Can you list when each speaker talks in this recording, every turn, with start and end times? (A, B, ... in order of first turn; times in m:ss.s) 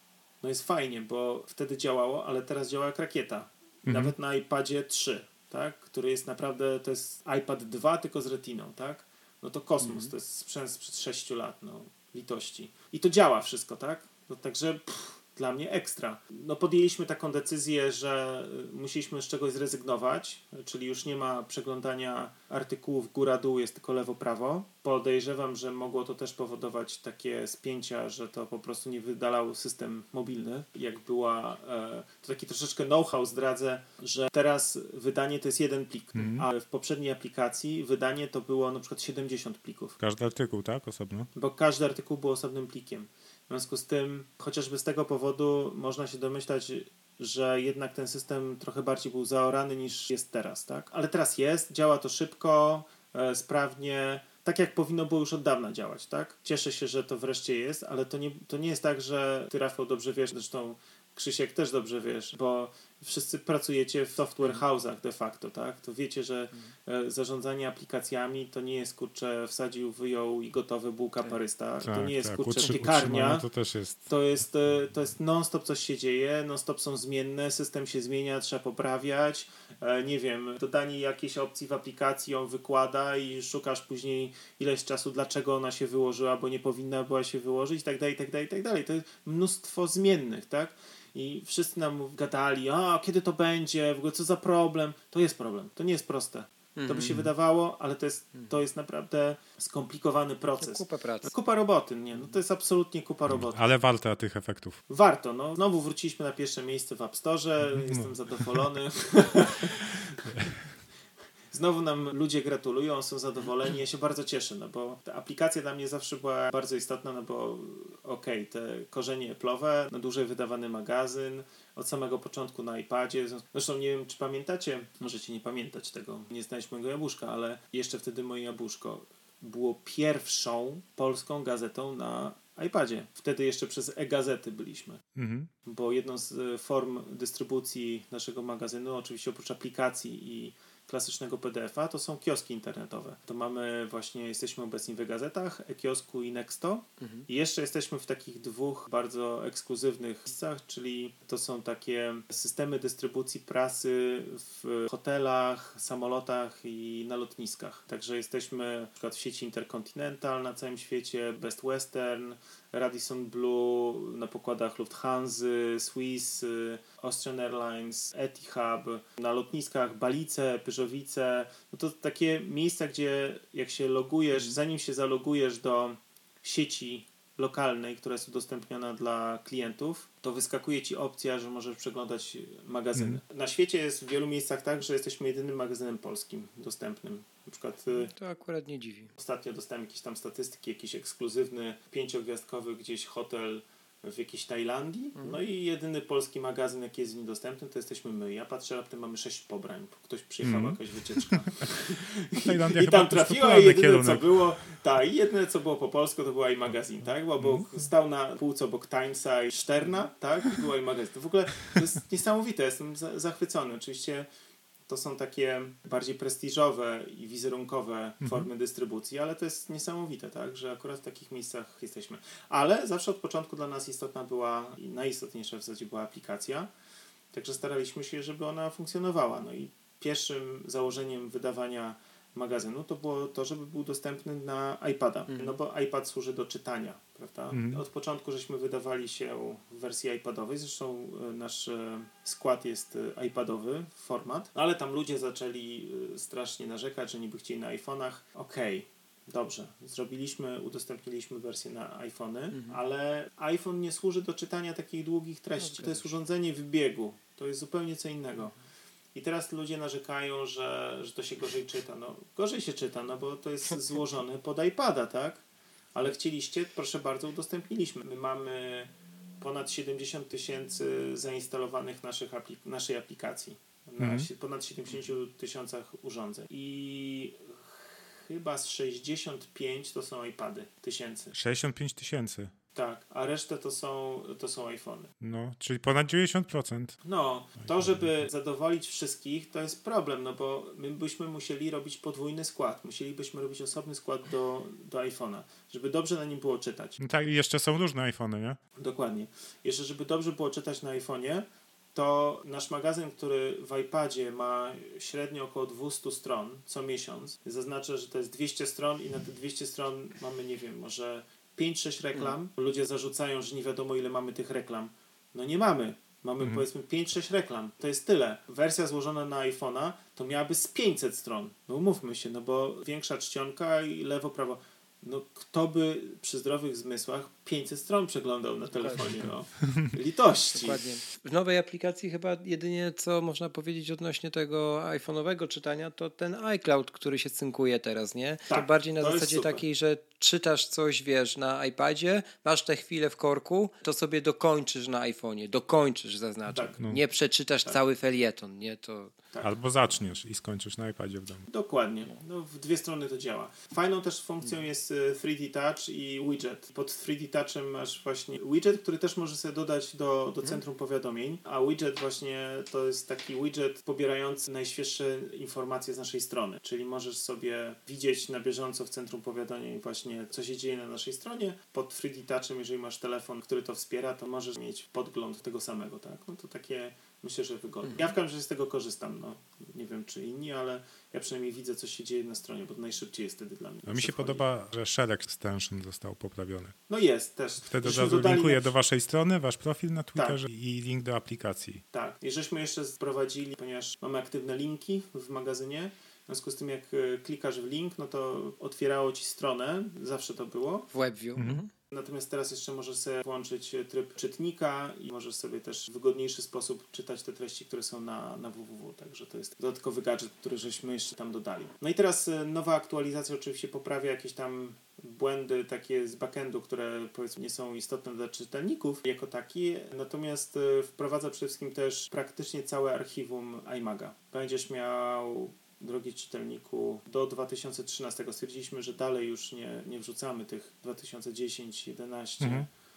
0:00.4-0:40.0 A
0:03.8-0:04.1 B
0:09.8-0:10.1 C
0:36.2-0:36.5 B
0:40.0-0:41.3 B
0:41.3-1:13.4 A
1:11.8-1:14.1 B
1:14.0-1:43.6 A
1:36.8-1:37.3 C
1:40.6-1:41.3 C
1:43.3-1:44.8 B
1:44.9-1:50.3 A
1:47.8-1:48.5 B
1:51.5-2:15.0 A
2:15.1-2:15.5 B
2:15.6-3:08.1 A
2:27.0-2:27.3 C
3:02.9-3:03.2 B
3:08.1-3:09.1 C
3:09.2-3:34.3 A
3:20.4-3:21.4 B
3:22.4-3:24.2 B
3:27.4-3:27.6 B
3:34.9-3:46.7 A
3:38.2-3:38.5 B
3:47.3-4:18.5 A
3:55.3-3:55.6 C
3:57.5-3:57.8 B
4:12.5-4:12.8 C
4:15.6-4:16.1 C
4:19.1-4:25.4 A
4:25.9-4:41.3 A
4:34.0-4:34.3 B
4:41.3-4:42.5 B
4:42.7-4:45.1 A
4:45.2-4:47.0 B
4:47.0-4:57.0 A
4:47.7-4:48.1 B
4:57.0-4:58.6 B
4:58.8-5:30.8 A
5:28.8-5:29.2 C
5:30.5-5:49.1 C
5:38.5-5:39.6 A
5:46.5-5:46.8 A
5:49.4-5:51.4 B
5:51.5-6:24.4 A
6:23.8-6:26.8 B
6:26.9-6:28.7 A
6:27.7-6:31.8 B
6:31.9-6:40.9 A
6:40.9-6:41.7 C
6:41.4-6:41.6 B
6:41.9-7:12.7 A
7:12.4-7:12.7 B